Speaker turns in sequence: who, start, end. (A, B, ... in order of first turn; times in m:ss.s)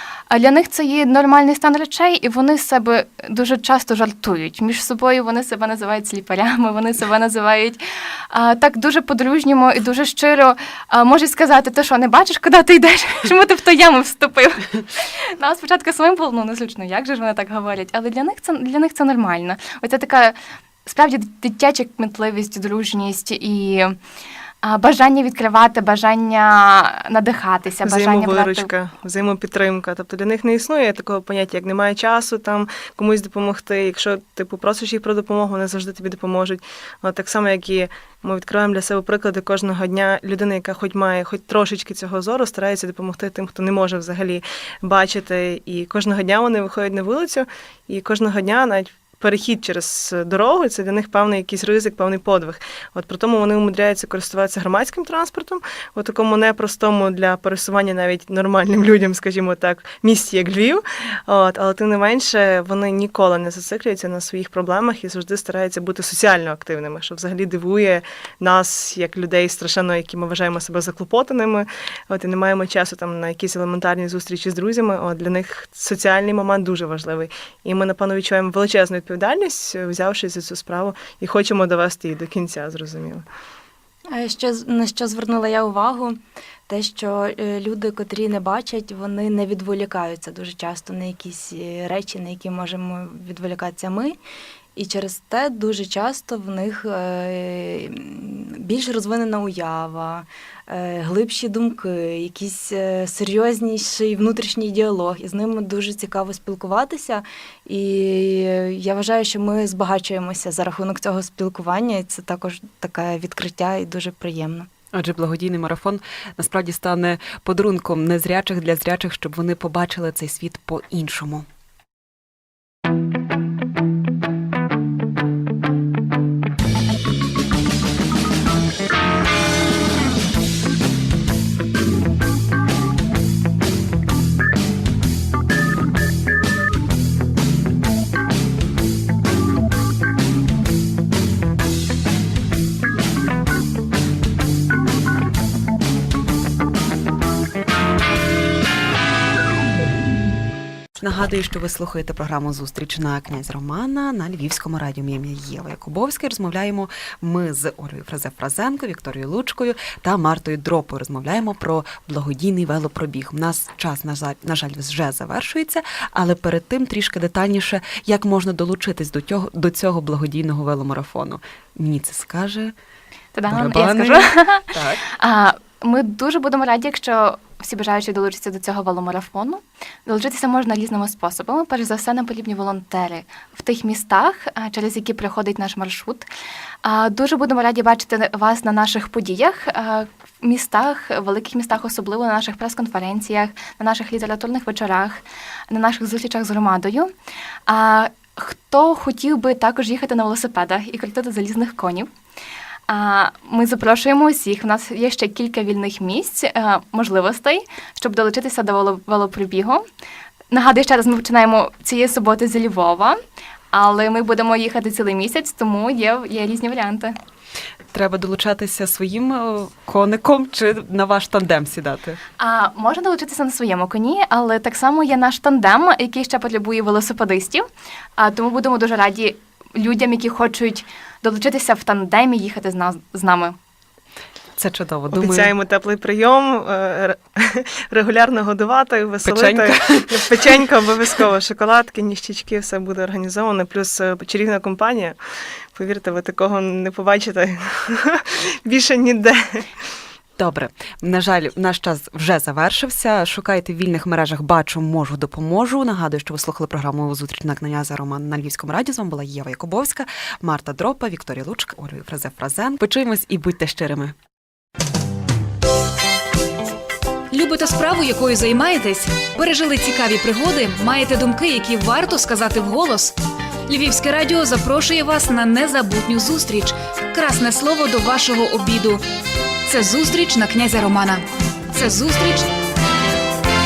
0:00.3-0:24.0 A
0:24.6-0:28.7 A
0:27.8-1:23.2 B
1:24.1-1:34.2 C
1:34.8-1:54.7 C
1:54.9-2:01.4 D
2:31.0-2:52.7 D
2:53.3-3:06.2 A
2:53.5-2:55.0 D
3:06.8-3:17.1 A
3:17.7-3:22.1 A
3:22.9-3:29.8 A
3:30.5-3:33.2 A
3:33.7-3:37.1 A
3:37.9-3:42.2 D
3:42.4-3:47.6 A
3:48.2-3:53.6 A
3:54.6-3:55.5 D
3:55.1-4:05.2 B
3:59.2-4:00.6 D
4:05.7-4:09.7 B
4:10.4-4:24.1 D
4:27.3-4:33.1 E
4:33.7-4:39.0 E
4:39.6-4:42.5 E